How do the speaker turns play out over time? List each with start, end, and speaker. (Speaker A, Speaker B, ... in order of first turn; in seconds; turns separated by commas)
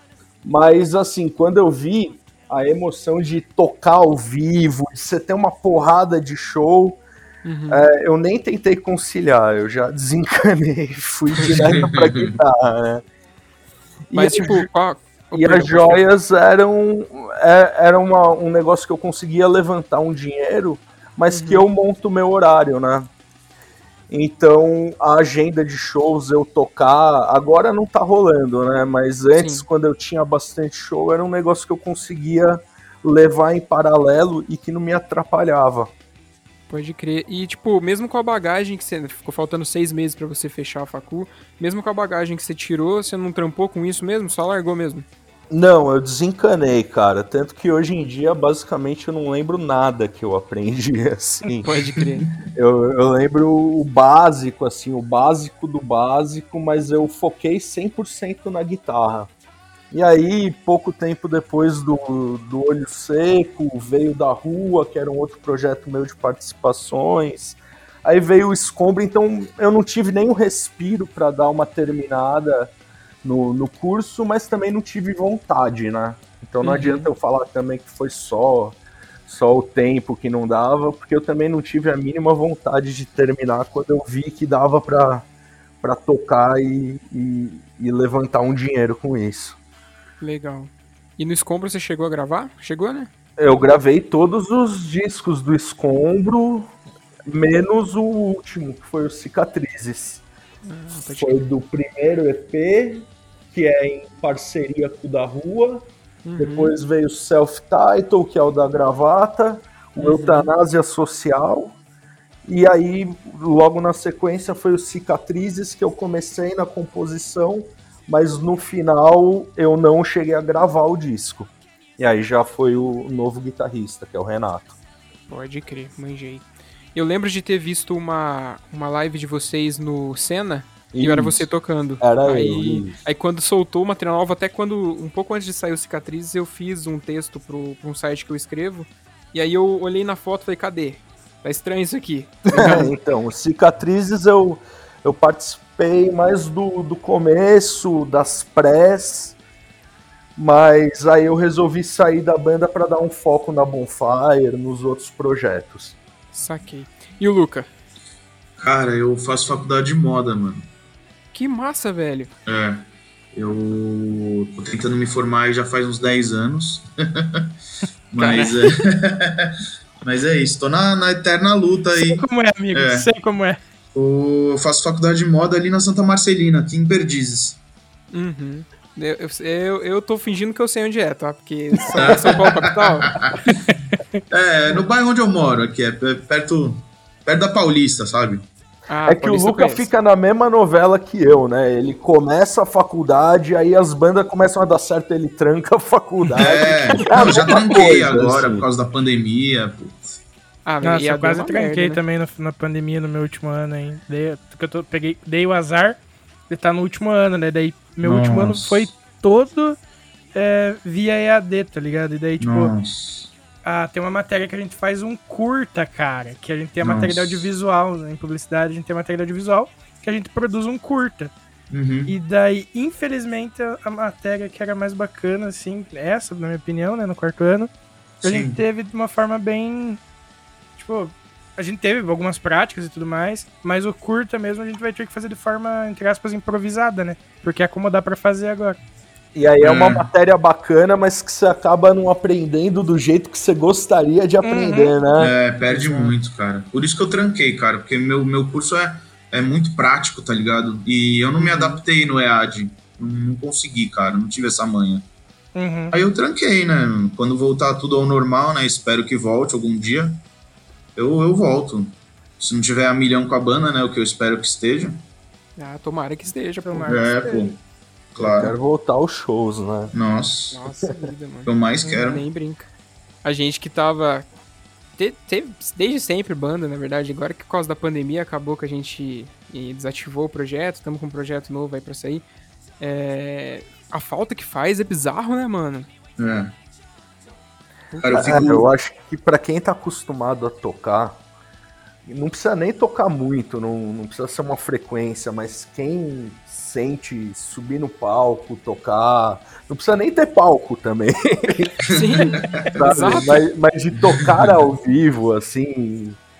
Speaker A: 0.4-7.0, Speaker B: 7.4-7.9, Speaker A: 7.7-13.0, Speaker C: 11.5-12.3, Speaker A: 14.1-14.7, Speaker B: 14.1-16.0, Speaker A: 15.3-23.1, Speaker B: 21.3-21.6, Speaker A: 24.1-35.9, Speaker B: 29.4-29.6, Speaker B: 36.7-45.0, Speaker A: 45.5-51.7, Speaker B: 51.6-52.3, Speaker A: 52.5-59.3, Speaker A: 59.9-72.7, Speaker A: 73.2-85.2, Speaker B: 76.6-77.1, Speaker A: 85.8-89.5, Speaker B: 90.2-93.1, Speaker A: 93.4-96.7, Speaker A: 97.2-100.2, Speaker B: 100.6-101.4, Speaker A: 101.1-105.9, Speaker B: 106.2-106.7, Speaker A: 106.4-111.8, Speaker B: 110.0-110.5, Speaker A: 112.4-124.8, Speaker B: 125.3-142.9, Speaker A: 130.9-131.5, Speaker A: 132.0-133.0, Speaker A: 142.5-149.3, Speaker A: 150.4-156.0, Speaker B: 156.3-157.7, Speaker C: 158.6-160.7, Speaker B: 161.3-162.3, Speaker C: 162.4-162.8, Speaker C: 163.3-167.5, Speaker C: 168.1-173.1, Speaker B: 168.2-168.7, Speaker D: 171.9-173.6, Speaker C: 173.9-177.6, Speaker B: 178.1-183.1, Speaker C: 181.9-183.4, Speaker D: 183.4-184.2, Speaker C: 184.3-188.4, Speaker B: 188.9-189.9, Speaker A: 189.1-198.7, Speaker C: 196.4-200.2, Speaker B: 200.6-202.0, Speaker D: 200.8-209.8, Speaker C: 208.0-208.9, Speaker D: 210.3-212.7, Speaker C: 212.4-213.3, Speaker D: 213.6-221.3, Speaker C: 216.8-217.5, Speaker C: 221.7-222.1, Speaker D: 222.1-227.7, Speaker C: 228.2-228.6, Speaker D: 228.2-230.0, Speaker D: 230.8-238.8, Speaker A: 239.3-245.3, Speaker C: 239.6-240.1, Speaker D: 244.4-244.9, Speaker C: 245.2-255.0, Speaker D: 245.7-246.1, Speaker D: 251.4-251.8, Speaker D: 255.5-256.0, Speaker C: 255.9-260.2, Speaker C: 260.9-265.0, Speaker B: 265.6-267.0, Speaker D: 266.6-267.6, Speaker C: 266.9-267.5, Speaker C: 268.1-268.5, Speaker A: 268.2-269.9, Speaker C: 269.9-270.6, Speaker B: 270.5-272.7, Speaker C: 271.4-272.2, Speaker B: 273.2-274.2, Speaker B: 275.0-282.2, Speaker B: 282.8-285.9, Speaker C: 286.2-286.5, Speaker B: 287.9-288.4, Speaker C: 288.0-288.7, Speaker A: 288.1-291.2, Speaker A: 292.1-301.9, Speaker B: 301.9-303.4, Speaker C: 302.0-303.2, Speaker A: 302.7-306.2, Speaker C: 304.1-304.5